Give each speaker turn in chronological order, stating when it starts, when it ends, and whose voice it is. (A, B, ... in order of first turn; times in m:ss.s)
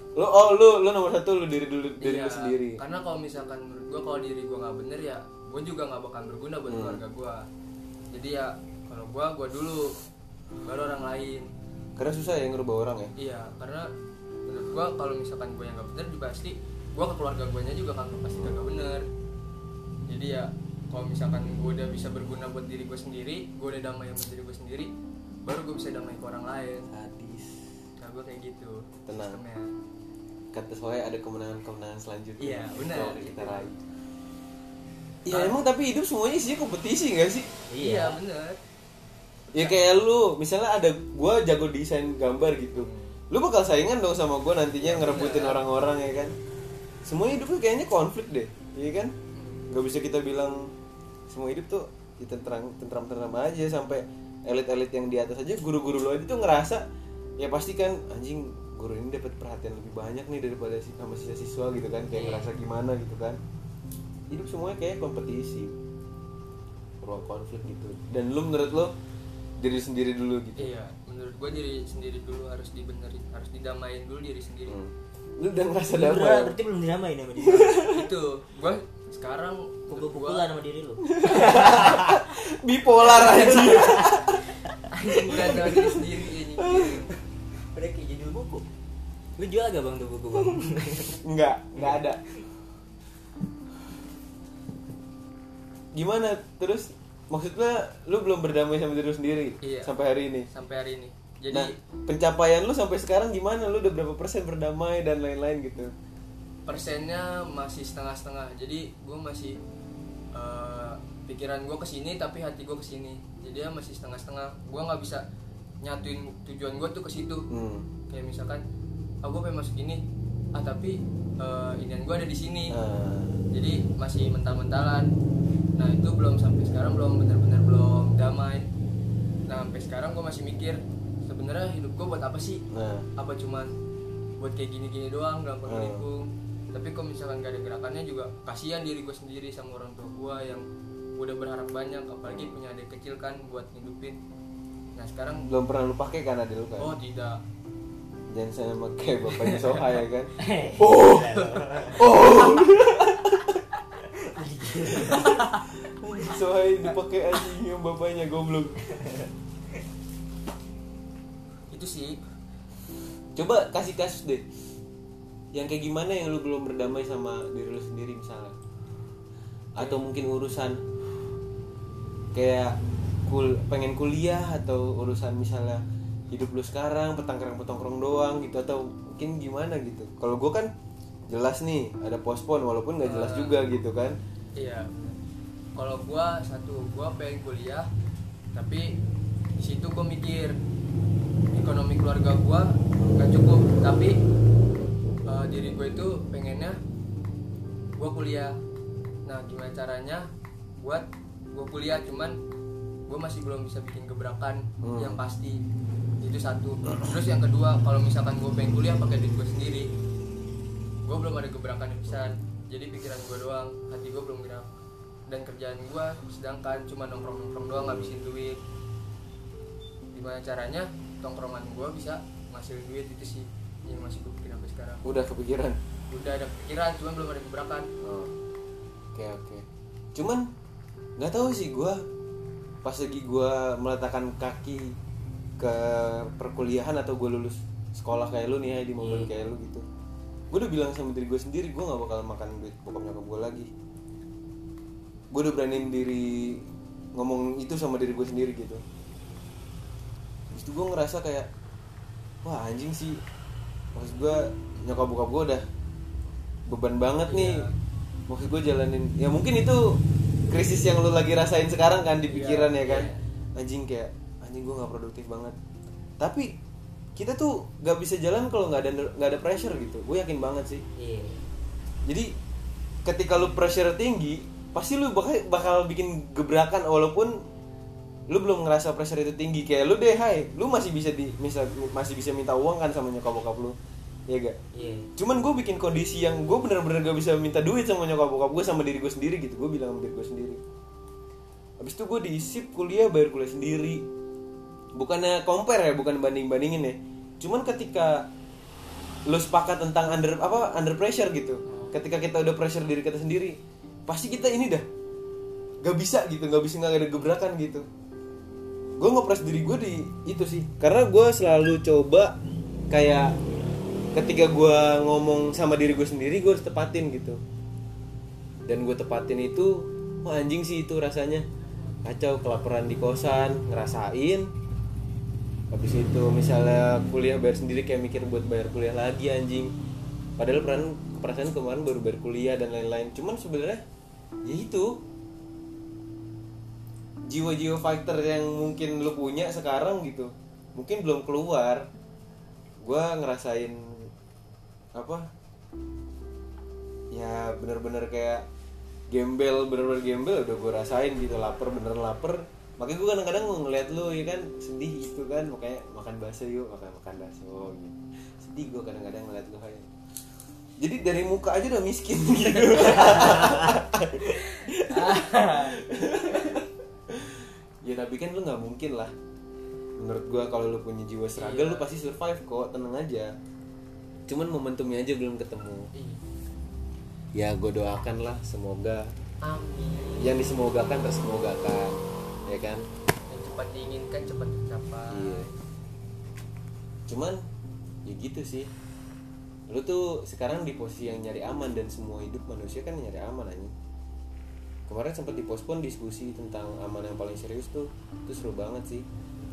0:00.2-0:02.8 A
0:02.0-0:07.4 B
0:06.7-0:07.0 A
0:08.1-0:09.9 B
0:10.6-0:11.5 B
0:12.0-0:13.1 A
0:13.2-0:13.9 B
0:14.5-0:19.1 B
0:20.1-0:24.9 B
0:25.5-0:26.9 B
0:26.9-0:27.7 A
0:28.0-0:29.7 B
0:29.1-0:29.4 A
0:30.5-0:33.8 A
0:32.4-0:33.7 B
0:35.3-0:37.5 A
0:35.3-0:35.6 B
0:37.7-0:38.2 C
0:37.8-0:38.6 B
0:39.5-0:46.3 A
0:42.9-0:43.2 B
0:44.8-0:45.6 B
0:47.0-0:49.1 A
0:49.4-0:49.7 B
0:49.7-0:50.7 A
0:51.3-0:56.8 A
0:57.4-1:03.4 A
1:02.1-1:02.5 C
1:04.3-1:05.7 A
1:07.0-1:08.9 A
1:09.6-1:10.7 A
1:10.6-1:14.8 B
1:14.7-1:16.5 A
1:15.9-1:17.8 C
1:17.4-1:18.1 A
1:17.9-1:20.4 B
1:19.9-1:22.2 C
1:21.1-1:24.5 A
1:23.2-1:24.2 C
1:23.3-1:23.7 B
1:24.9-1:27.1 B
1:25.1-1:27.1 A
1:27.7-1:28.7 C
1:29.4-1:31.2 C
1:31.2-1:32.2 A
1:36.0-1:40.5 A
1:39.6-1:39.9 B
1:40.5-1:41.8 B
1:41.5-1:45.9 A
1:46.7-1:49.6 B
1:50.4-1:55.2 B
1:55.8-1:57.5 B
1:57.5-1:57.9 A
1:58.1-1:58.6 B
1:59.2-2:00.0 B
2:00.6-2:02.8 B
2:02.7-2:03.4 A
2:03.5-2:05.1 B
2:05.8-2:08.7 B
2:09.5-2:12.6 B
2:12.7-2:13.1 A
2:13.2-2:13.7 B
2:14.4-2:20.6 B
2:15.7-2:16.0 A
2:21.2-2:24.2 B
2:22.3-2:22.6 A
2:25.0-2:25.5 B
2:25.5-2:26.9 A
2:26.8-2:27.4 B
2:28.3-2:33.6 A
2:29.4-2:29.7 B
2:30.4-2:32.1 C
2:31.3-2:32.0 B
2:34.0-2:35.4 C
2:35.9-2:38.8 A
2:39.0-2:39.3 C
2:41.7-2:42.2 B
2:43.4-2:44.4 A
2:45.5-2:48.6 A
2:49.8-2:50.8 A
2:49.8-2:50.0 B
2:52.4-3:00.7 A
3:01.3-3:04.2 A
3:03.0-3:03.6 B
3:04.6-3:05.2 B
3:05.8-3:07.9 B
3:08.5-3:08.9 B
3:09.6-3:10.6 B
3:11.5-3:14.2 B
3:15.3-3:16.8 B
3:18.0-3:18.5 B
3:19.3-3:20.2 B
3:20.8-3:22.4 B
3:23.1-3:25.6 B
3:24.8-3:25.2 A
3:26.2-3:29.9 B
3:31.1-3:34.7 B
3:35.3-3:38.6 B
3:37.8-3:38.1 A
3:40.1-3:45.0 B
3:45.0-3:45.8 A
3:46.1-3:47.9 B
3:48.0-3:48.3 A
3:49.2-3:50.5 A
3:51.2-3:52.0 A
3:52.8-3:55.0 A
3:55.6-3:59.8 A
3:59.0-3:59.3 C
4:00.5-4:03.7 A
4:05.3-4:08.8 A
4:10.5-4:11.5 A
4:12.4-4:13.2 A
4:14.0-4:15.6 A
4:16.7-4:17.6 A
4:17.3-4:17.7 B
4:18.3-4:25.6 A
4:22.3-4:22.9 B
4:22.8-4:23.2 C
4:26.2-4:26.6 A
4:27.2-4:30.8 A
4:31.0-4:31.5 C
4:32.1-4:32.3 A
4:33.1-4:37.4 A
4:38.3-4:43.8 A
4:44.3-4:44.6 A
4:44.7-4:45.1 C
4:45.2-4:50.6 A
4:51.8-4:54.0 A
4:55.0-4:58.3 A
4:59.3-5:04.8 A
5:05.8-5:07.9 A
5:09.0-5:12.4 A
5:12.9-5:13.4 A
5:14.1-5:17.4 A
5:18.7-5:21.4 A
5:22.0-5:24.5 A
5:25.7-5:29.7 A
5:30.4-5:33.8 A
5:34.4-5:35.0 A
5:37.3-5:41.9 A
5:42.8-5:44.1 A
5:45.0-5:45.3 A
5:47.1-5:48.4 A
5:49.1-5:59.9 A
6:00.8-6:09.1 A
6:02.6-6:03.4 B
6:04.5-6:05.8 B
6:10.0-6:13.3 A
6:11.4-6:11.9 B
6:14.3-6:15.9 A
6:15.9-6:16.2 B
6:17.4-6:19.1 A
6:19.4-6:20.4 B
6:20.2-6:22.8 A
6:23.3-6:25.5 B
6:25.1-6:25.5 A
6:27.1-6:27.4 A
6:28.1-6:28.7 A
6:29.7-6:33.7 A
6:34.9-6:39.0 A